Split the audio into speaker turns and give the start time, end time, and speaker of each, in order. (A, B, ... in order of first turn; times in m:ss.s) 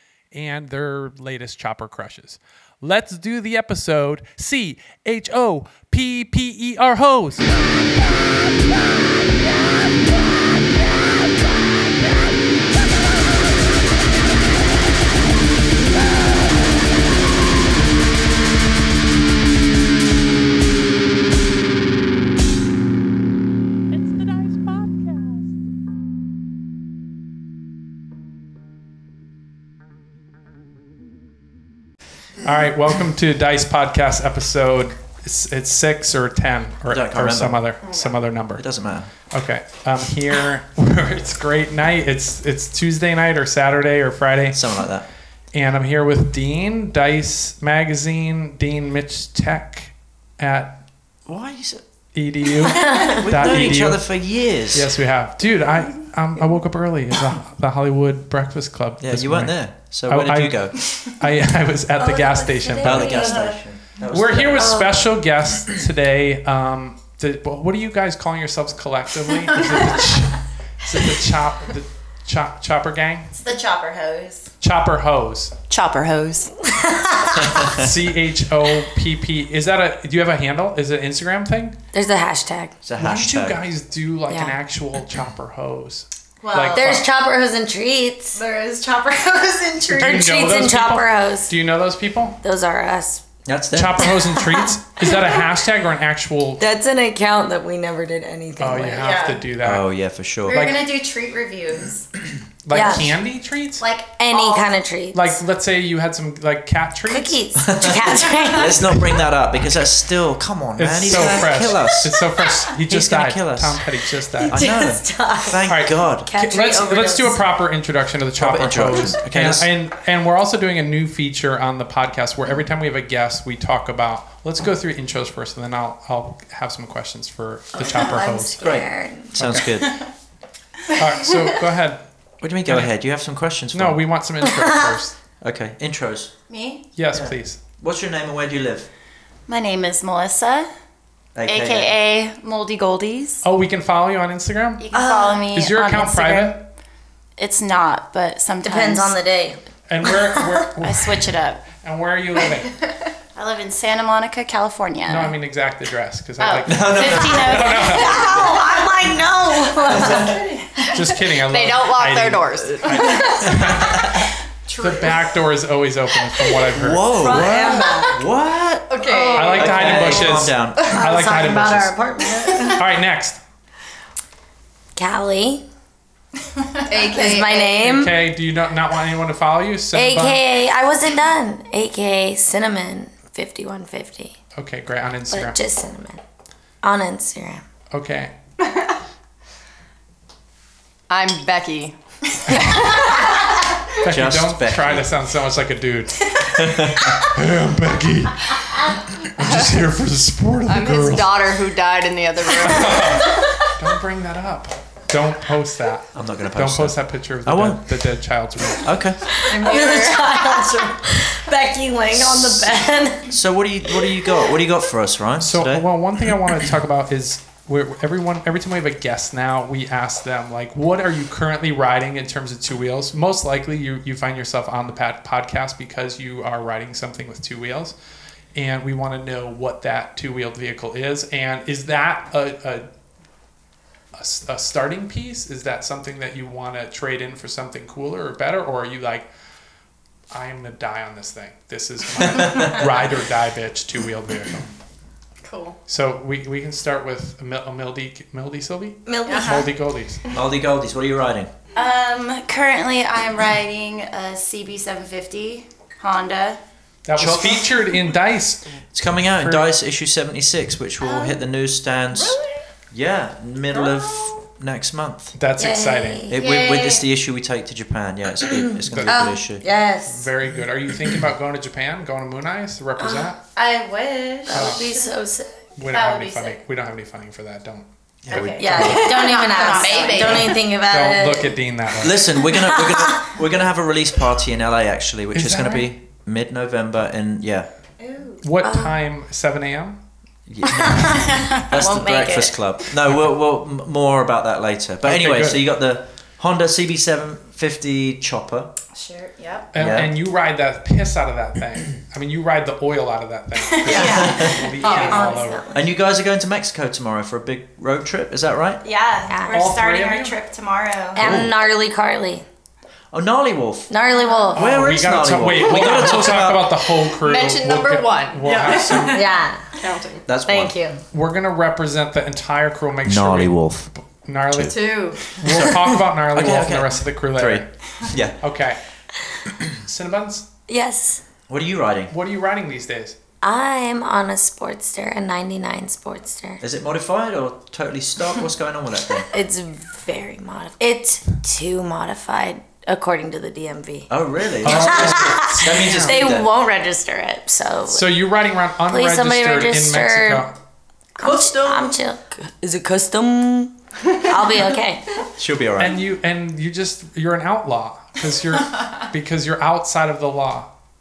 0:00.3-0:07.5 A
0:32.4-0:38.7 A
0:36.9-0:37.6 B
0:38.6-0:39.1 B
0:39.3-0:44.7 A
0:44.5-0:45.1 B
0:45.5-0:50.8 A
0:51.3-0:51.8 B
0:52.1-0:54.1 A
0:52.8-0:53.2 C
0:53.0-0:54.9 B
0:54.7-1:03.3 A
0:59.0-1:00.8 B
1:02.0-1:03.5 C
1:02.8-1:04.9 B
1:03.3-1:03.5 D
1:04.1-1:13.3 A
1:04.6-1:05.0 C
1:13.3-1:14.5 D
1:14.6-1:15.5 A
1:15.7-1:16.5 D
1:16.6-1:17.8 C
1:17.3-1:17.9 B
1:17.6-1:21.8 A
1:21.9-1:22.8 C
1:22.8-1:23.6 B
1:23.0-1:27.1 A
1:24.3-1:24.6 C
1:26.4-1:27.0 D
1:26.7-1:28.4 C
1:28.4-1:30.2 D
1:29.9-1:32.4 A
1:30.0-1:31.5 C
1:32.4-1:33.2 C
1:33.5-1:34.1 B
1:33.8-1:36.6 A
1:34.2-1:35.3 C
1:36.6-1:39.0 C
1:38.6-1:39.8 A
1:39.0-1:39.4 D
1:39.6-1:40.7 B
1:40.5-1:42.1 D
1:40.5-1:40.9 A
1:42.7-1:43.8 A
1:42.7-1:43.1 C
1:43.8-1:44.7 D
1:44.2-1:45.4 C
1:45.1-1:47.4 A
1:47.1-1:49.0 C
1:47.6-1:52.1 B
1:50.8-1:54.7 A
1:51.1-1:51.4 C
1:52.7-1:53.8 B
1:54.4-1:57.4 C
1:54.5-1:56.3 B
1:55.7-2:08.6 A
1:58.4-1:59.7 B
2:07.7-2:09.3 C
2:08.6-2:10.0 B
2:09.4-2:09.7 A
2:10.9-2:12.0 A
2:12.4-2:14.0 B
2:12.6-2:12.9 A
2:13.7-2:15.2 A
2:14.5-2:15.0 C
2:15.4-2:16.3 B
2:16.5-2:16.8 D
2:17.0-2:17.6 A
2:17.1-2:18.9 B
2:19.5-2:20.7 D
2:21.4-2:22.0 B
2:21.5-2:23.4 D
2:23.4-2:24.9 A
2:24.8-2:26.6 D
2:24.9-2:25.5 C
2:25.5-2:26.6 A
2:27.4-2:29.2 D
2:28.6-2:29.6 C
2:29.9-2:32.8 A
2:30.8-2:31.6 D
2:33.4-2:35.3 D
2:35.1-2:38.3 A
2:36.4-2:39.1 D
2:36.6-2:38.0 B
2:38.0-2:40.4 C
2:39.8-2:41.1 D
2:39.9-2:40.4 B
2:40.9-2:48.0 A
2:41.5-2:43.5 E
2:43.0-2:43.9 D
2:43.6-2:44.1 B
2:44.7-2:45.3 D
2:46.7-2:51.0 B
2:47.2-2:48.2 C
2:48.9-2:50.0 E
2:49.1-2:50.3 D
2:49.3-2:52.0 A
2:50.8-2:52.8 C
2:50.8-2:51.2 D
2:52.7-2:53.4 A
2:55.0-2:55.6 C
2:56.8-2:57.8 D
2:56.9-2:58.2 C
2:57.8-3:00.4 A
2:59.9-3:04.4 C
3:04.6-3:05.6 A
3:05.3-3:06.2 C
3:06.8-3:07.6 C
3:07.9-3:08.3 A
3:11.1-3:12.0 E
3:12.7-3:13.2 C
3:14.0-3:16.5 A
3:14.0-3:15.1 B
3:16.4-3:17.3 B
3:17.2-3:21.4 A
3:20.7-3:23.3 E
3:22.6-3:28.9 A
3:22.7-3:23.5 C
3:26.1-3:27.9 B
3:28.8-3:29.3 B
3:29.3-3:33.3 C
3:29.5-3:31.0 D
3:32.1-3:35.9 B
3:35.4-3:48.0 A
3:48.5-3:52.9 A
3:54.2-3:59.3 A
4:00.3-4:04.7 A
4:02.2-4:03.0 B
4:05.4-4:05.8 E
4:05.9-4:10.2 A
4:09.1-4:09.7 C
4:09.3-4:09.7 D
4:10.3-4:11.5 B
4:11.8-4:16.6 D
4:17.1-4:18.6 A
4:17.2-4:17.5 B
4:18.9-4:22.4 B
4:19.2-4:19.7 A
4:21.0-4:21.4 D
4:22.2-4:22.4 D
4:22.9-4:25.4 B
4:23.7-4:24.4 D
4:25.4-4:26.3 A
4:25.6-4:26.4 C
4:26.3-4:29.6 B
4:26.3-4:27.0 D
4:28.8-4:29.3 A
4:29.0-4:30.3 C
4:30.1-4:33.4 A
4:33.0-4:33.3 C
4:33.6-4:35.1 D
4:34.5-4:35.6 C
4:34.5-4:34.9 A
4:35.8-4:39.4 A
4:35.9-4:36.6 D
4:38.3-4:39.3 B
4:38.3-4:40.6 D
4:38.6-4:41.6 C
4:39.8-4:40.4 E
4:40.8-4:42.3 A
4:42.0-4:47.7 B
4:42.5-4:43.3 C
4:45.3-4:45.9 A
4:48.0-4:48.4 D
4:48.4-4:50.0 A
4:48.6-4:49.0 C
4:50.5-4:58.7 B
4:50.8-4:52.6 C
4:55.0-4:55.6 A
4:58.9-4:59.7 D
4:59.7-5:05.6 A
4:59.8-5:00.1 B
5:03.7-5:05.6 D
5:03.9-5:05.8 C
5:04.0-5:04.6 B
5:04.8-5:05.3 E
5:05.7-5:08.8 B
5:08.8-5:11.3 D
5:09.3-5:09.8 C
5:09.5-5:10.4 A
5:11.2-5:12.4 C
5:11.2-5:11.6 B
5:13.1-5:13.9 B
5:13.9-5:14.6 C
5:14.2-5:14.5 D
5:14.5-5:16.8 B
5:14.5-5:19.3 A
5:17.1-5:19.2 E
5:18.4-5:19.3 D
5:19.0-5:19.7 C
5:19.8-5:20.2 E
5:20.3-5:20.8 B
5:20.5-5:21.0 C
5:21.1-5:27.7 A
5:23.1-5:23.9 B
5:24.7-5:25.3 E
5:25.4-5:28.4 B
5:28.4-5:28.8 A
5:29.8-5:30.5 A
5:30.7-5:31.2 C
5:31.5-5:32.1 B
5:32.1-5:33.2 A
5:33.4-5:36.6 C
5:36.6-5:39.3 B
5:39.3-5:44.1 C
5:44.1-5:46.5 B
5:44.6-5:46.2 A
5:44.6-5:48.1 C
5:47.9-5:50.6 A
5:48.9-5:50.5 C
5:51.2-5:55.0 C
5:51.2-5:52.0 D
5:54.3-5:54.6 D
5:55.4-5:56.0 B
5:55.8-6:00.7 A